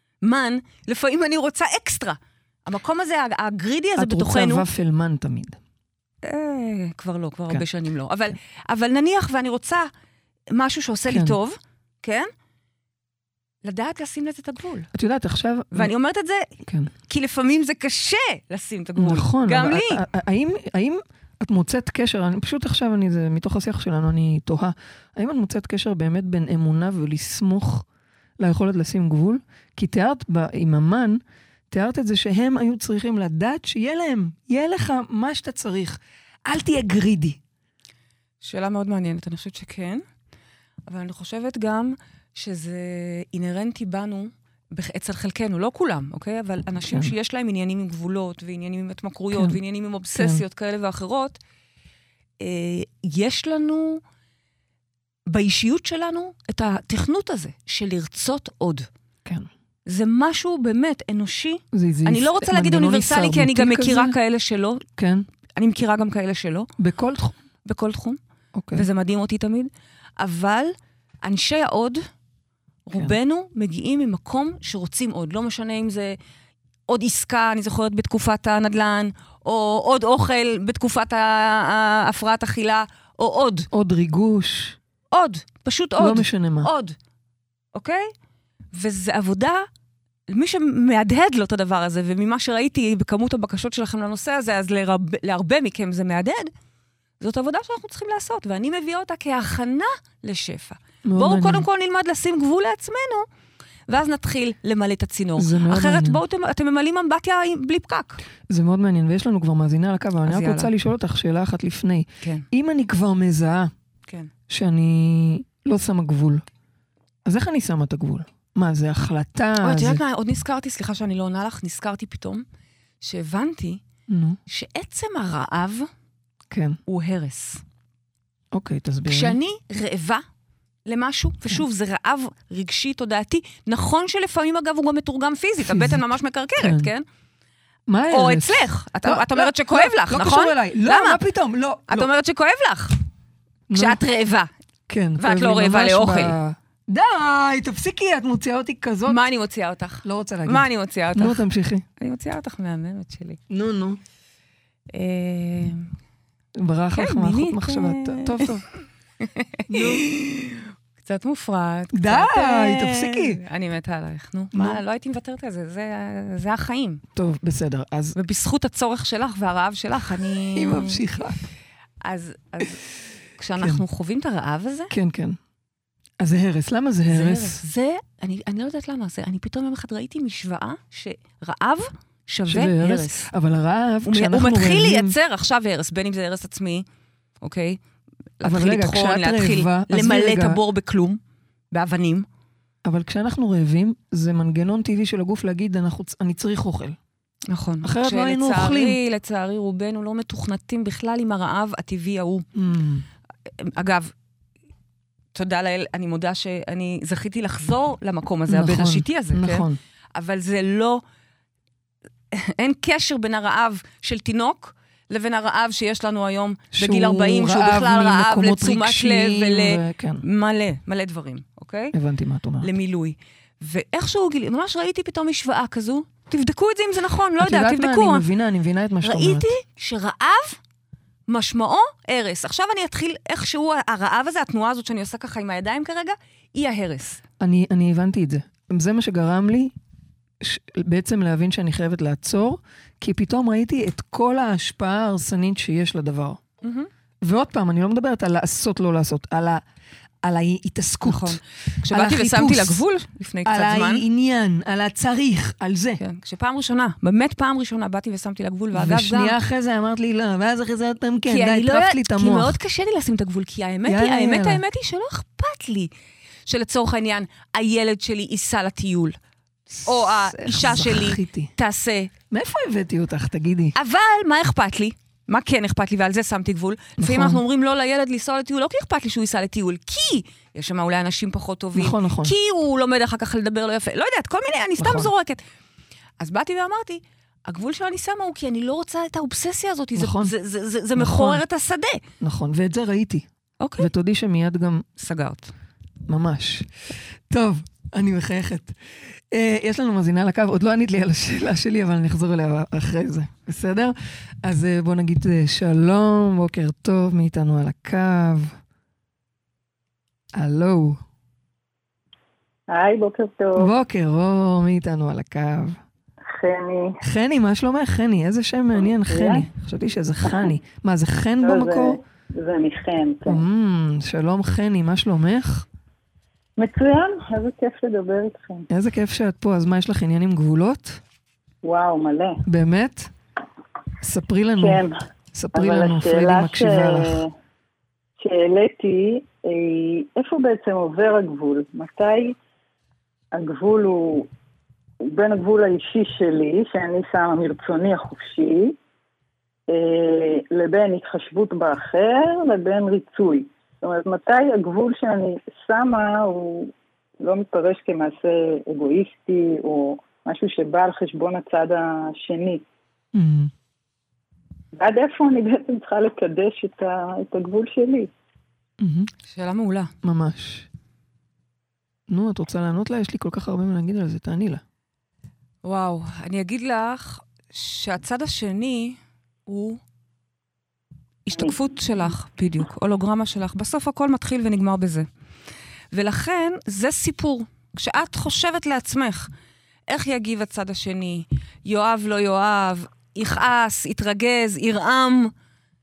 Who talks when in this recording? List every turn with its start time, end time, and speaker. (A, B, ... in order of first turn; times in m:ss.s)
0:00.2-0:04.7 A
0:04.0-0:05.6 B
0:06.2-0:09.9 A
0:10.5-0:12.3 A
0:11.1-0:11.4 B
0:13.6-0:14.9 A
0:14.9-0:15.9 B
0:15.7-0:16.5 A
0:16.6-0:16.9 B
0:17.1-0:20.0 A
0:19.0-0:27.8 B
0:28.4-0:31.2 B
0:31.7-0:37.4 B
0:38.4-0:40.0 A
0:40.9-0:51.4 A
0:46.9-0:47.1 B
0:49.3-0:49.6 B
0:50.1-0:50.4 B
0:52.4-0:54.0 A
0:55.3-0:58.9 A
0:59.8-1:04.8 A
1:01.7-1:04.2 B
1:05.0-1:05.2 B
1:05.6-1:06.7 A
1:06.8-1:07.3 B
1:07.6-1:08.2 A
1:08.5-1:08.8 B
1:08.7-1:12.0 A
1:12.8-1:16.2 A
1:16.9-1:23.7 A
1:23.7-1:24.8 B
1:25.1-1:26.9 A
1:26.0-1:26.7 B
1:27.7-1:28.1 A
1:28.7-1:29.6 A
1:30.3-1:36.5 A
1:37.2-1:43.2 A
1:41.0-1:41.6 B
1:43.9-1:48.2 A
1:45.4-1:46.2 B
1:48.5-1:53.7 B
1:50.2-1:50.7 A
1:54.5-1:56.4 B
1:57.2-2:00.0 B
1:59.6-2:02.4 A
2:03.0-2:03.8 A
2:04.1-2:04.4 B
2:04.5-2:05.9 A
2:06.5-2:06.8 B
2:06.9-2:07.6 A
2:08.5-2:09.4 B
2:09.1-2:10.2 A
2:10.8-2:17.0 A
2:15.6-2:16.0 B
2:16.6-2:16.9 B
2:17.9-2:22.1 B
2:18.1-2:21.2 A
2:21.9-2:22.9 A
2:23.7-2:24.0 B
2:23.7-2:24.5 A
2:24.9-2:29.2 B
2:25.2-2:26.4 A
2:29.0-2:31.4 A
2:30.0-2:31.8 B
2:32.0-2:33.4 A
2:33.5-2:34.0 B
2:34.9-2:35.9 A
2:36.6-2:38.6 B
2:37.0-2:38.5 A
2:39.2-2:47.0 A
2:39.7-2:40.0 B
2:41.9-2:43.4 B
2:44.5-2:44.8 B
2:47.1-2:48.1 B
2:48.1-2:51.0 A
2:50.5-2:51.4 B
2:52.0-2:52.8 A
2:53.4-2:54.9 A
2:54.9-2:55.4 B
2:56.2-2:57.6 B
2:57.1-3:03.3 A
3:02.5-3:05.1 B
3:04.1-3:06.8 A
3:07.4-3:07.8 A
3:08.4-3:11.2 A
3:08.4-3:10.6 B
3:11.7-3:12.2 A
3:12.8-3:17.0 B
3:17.5-3:22.4 A
3:17.8-3:19.0 B
3:22.5-3:23.0 B
3:23.6-3:24.1 A
3:25.3-3:31.0 A
3:28.5-3:29.8 B
3:32.3-3:41.9 A
3:36.7-3:40.2 B
3:41.9-3:42.7 B
3:42.6-3:48.2 A
3:47.4-3:49.5 B
3:49.0-3:50.6 A
3:51.3-3:57.2 A
3:57.4-3:59.7 B
4:00.4-4:06.4 B
4:06.6-4:06.9 A
4:07.2-4:09.6 B
4:10.2-4:12.8 B
4:11.0-4:14.0 A
4:13.4-4:16.0 B
4:16.0-4:19.3 A
4:18.7-4:22.6 B
4:21.3-4:25.9 A
4:23.8-4:24.6 B
4:26.4-4:29.2 A
4:29.7-4:31.5 B
4:29.8-4:32.1 A
4:32.3-4:33.7 B
4:33.7-4:45.4 A
4:37.0-4:37.4 B
4:41.7-4:42.3 B
4:44.8-4:45.1 B
4:46.2-4:52.0 A
4:50.0-4:50.3 B
4:51.0-4:51.4 B
4:52.2-4:53.2 B
4:53.6-4:53.9 A
4:53.8-4:54.8 B
4:55.0-4:55.5 A
4:56.0-4:56.7 B
4:57.3-4:58.8 B
4:59.3-5:08.5 B
5:10.3-5:11.0 B
5:12.7-5:13.7 C
5:13.5-5:15.8 B
5:16.3-5:17.0 C
5:17.0-5:22.0 B
5:19.1-5:19.4 C
5:21.4-5:23.4 C
5:23.2-5:25.6 B
5:26.6-5:28.7 C
5:28.7-5:31.0 B
5:31.6-5:32.4 C
5:32.4-5:33.1 B
5:34.0-5:37.2 B
5:34.6-5:34.9 C
5:35.5-5:37.3 C
5:38.2-5:42.4 C
5:43.3-5:44.3 C
5:45.0-5:48.8 C
5:49.7-6:02.6 C
6:03.1-6:03.5 B
6:04.8-6:08.1 C
6:08.8-6:09.1 B
6:09.3-6:09.9 A
6:10.0-6:10.7 B
6:12.1-6:14.6 B
6:15.6-6:19.8 A
6:21.2-6:25.1 A
6:25.9-6:29.3 A
6:29.9-6:35.3 A